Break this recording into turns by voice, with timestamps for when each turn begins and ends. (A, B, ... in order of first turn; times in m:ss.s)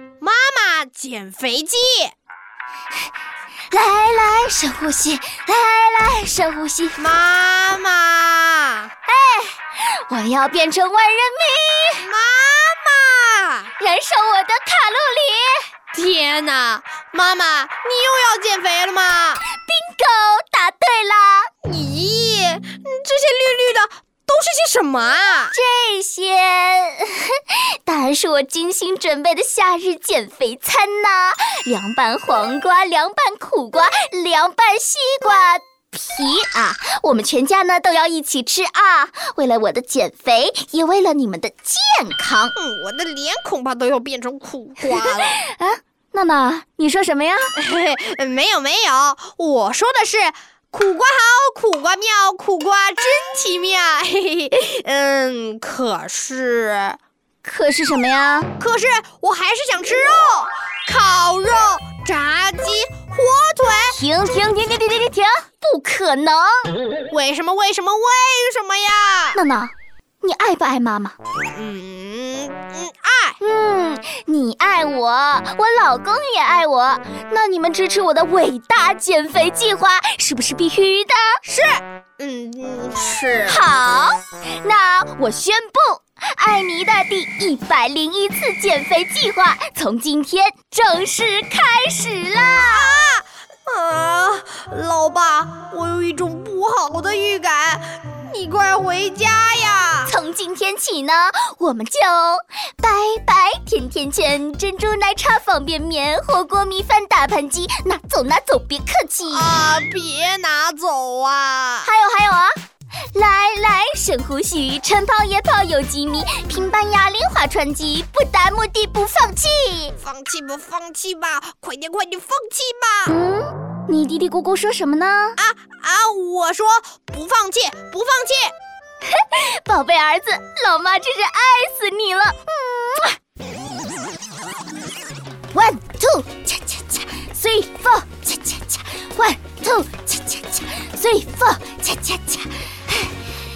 0:00.2-0:02.1 A
0:03.7-0:07.1 B
0:07.0-0:08.9 A
0:09.1-0:12.1 B
0:12.0-0:13.7 A
0:13.8-0:15.7 B
0:15.9-0:19.4 A
0:19.5-0:21.5 B
0:21.6-0:25.5 A
0:25.5-0:42.6 B
0:42.6-0:45.4 A
0:44.9-0:47.5 B
0:47.6-0:57.0 A
0:57.4-0:58.5 B
0:58.6-1:04.0 A
1:03.9-1:06.8 B
1:07.1-1:09.4 A
1:09.3-1:11.2 B
1:11.5-1:13.4 A
1:13.4-1:21.4 B
1:21.4-1:23.6 A
1:23.5-1:32.9 B
1:32.7-1:40.1 A
1:40.1-1:49.5 B
1:49.3-1:51.9 A
1:51.8-1:52.5 B
1:53.1-1:59.9 B
2:00.0-2:03.1 A
2:03.1-2:05.4 B
2:05.4-2:08.5 A
2:09.0-2:13.2 B
2:15.5-2:23.2 B